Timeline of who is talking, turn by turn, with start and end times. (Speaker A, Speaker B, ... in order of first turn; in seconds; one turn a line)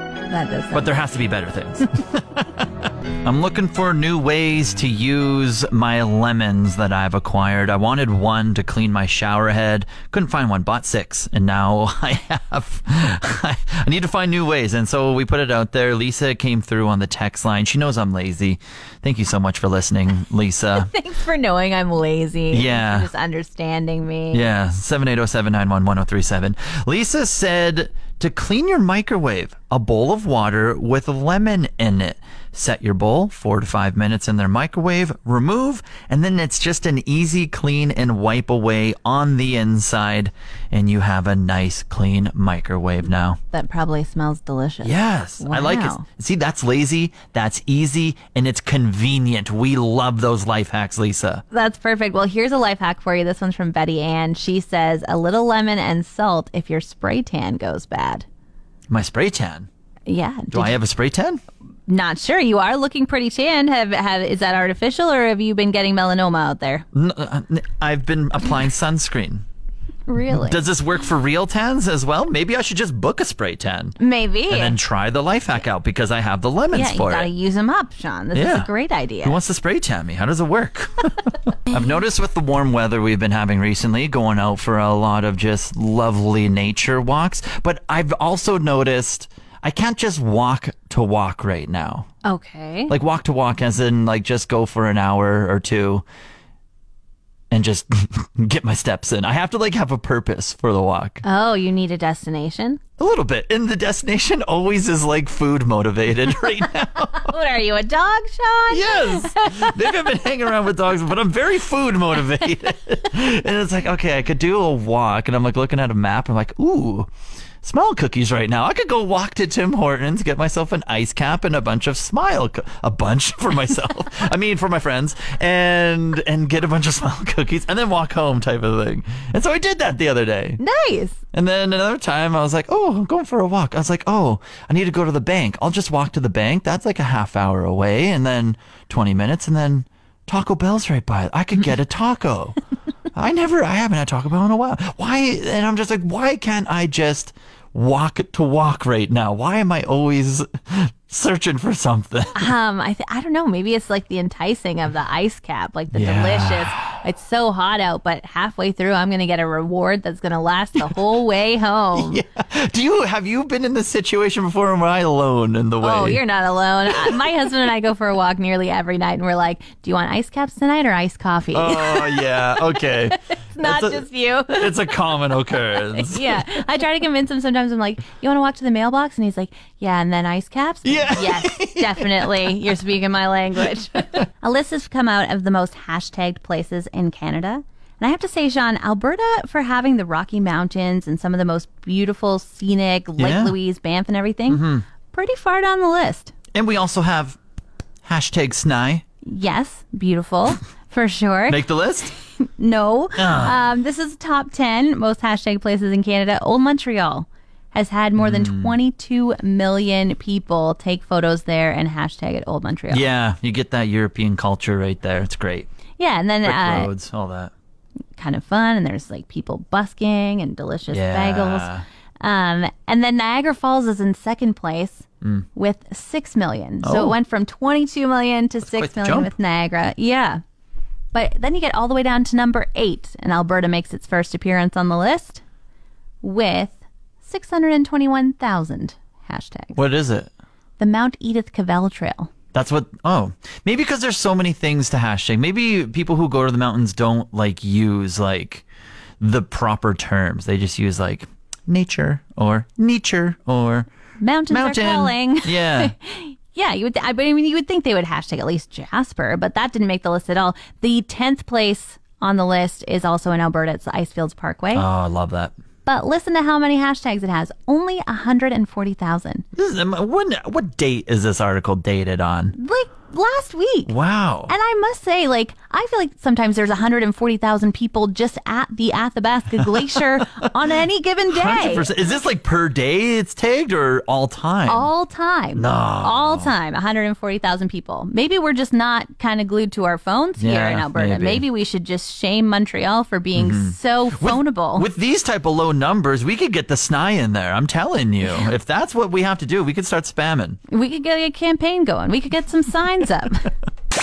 Speaker A: 0.3-0.9
Speaker B: 0.7-20.9
Speaker A: 20.8-24.4
Speaker B: 22.5-23.1
Speaker B: 24.3-43.4
Speaker A: 43.5-46.0
Speaker B: 44.8-51.4
Speaker A: 51.5-58.2
Speaker B: 58.9-59.7
Speaker A: 60.0-60.8
Speaker B: 60.5-61.4
Speaker A: 61.9-66.8
Speaker B: 66.9-69.5
Speaker A: 70.1-70.6
Speaker B: 70.3-74.0
Speaker A: 74.0-74.8
Speaker B: 74.5-77.3
Speaker A: 76.7-79.4
Speaker B: 78.3-78.7
Speaker B: 79.2-92.1
Speaker A: 92.2-92.9
Speaker B: 92.9-96.0
Speaker B: 97.5-101.2
Speaker A: 101.2-102.8
Speaker B: 103.0-107.3
Speaker A: 107.1-109.8
Speaker B: 108.7-117.1
Speaker B: 117.6-130.6
Speaker A: 130.6-131.2
Speaker B: 131.3-142.6
Speaker B: 143.1-152.5
Speaker A: 152.3-162.2
Speaker B: 155.9-156.8
Speaker B: 161.9-166.2
Speaker A: 165.8-175.0
Speaker B: 166.9-167.2
Speaker B: 171.5-176.5
Speaker A: 175.7-196.3
Speaker B: 180.8-182.6
Speaker B: 193.2-193.6
Speaker B: 194.5-194.8
Speaker B: 196.5-197.4
Speaker B: 198.0-199.0
Speaker A: 199.2-201.6
Speaker B: 201.5-202.1
Speaker A: 202.3-213.1
Speaker B: 203.2-203.6
Speaker B: 208.2-208.8
Speaker B: 212.9-215.7
Speaker A: 216.0-216.9
Speaker B: 216.4-217.5
Speaker A: 218.2-221.7
Speaker B: 220.9-221.8
Speaker A: 222.2-230.4
Speaker B: 226.8-227.2
Speaker B: 228.6-229.3
Speaker A: 231.1-235.4
Speaker A: 236.2-239.8
Speaker B: 239.7-240.3
Speaker A: 240.8-242.3
Speaker B: 242.5-248.6
Speaker B: 249.2-253.9
Speaker A: 254.2-264.9
Speaker B: 254.5-255.9
Speaker B: 264.7-265.5
Speaker A: 265.8-269.4
Speaker B: 269.5-272.5
Speaker A: 272.5-273.9
Speaker B: 273.9-274.5
Speaker A: 274.5-281.9
Speaker B: 281.3-284.9
Speaker A: 284.6-294.9
Speaker B: 285.6-286.5
Speaker B: 290.4-291.4
Speaker B: 293.3-300.6
Speaker A: 300.7-303.5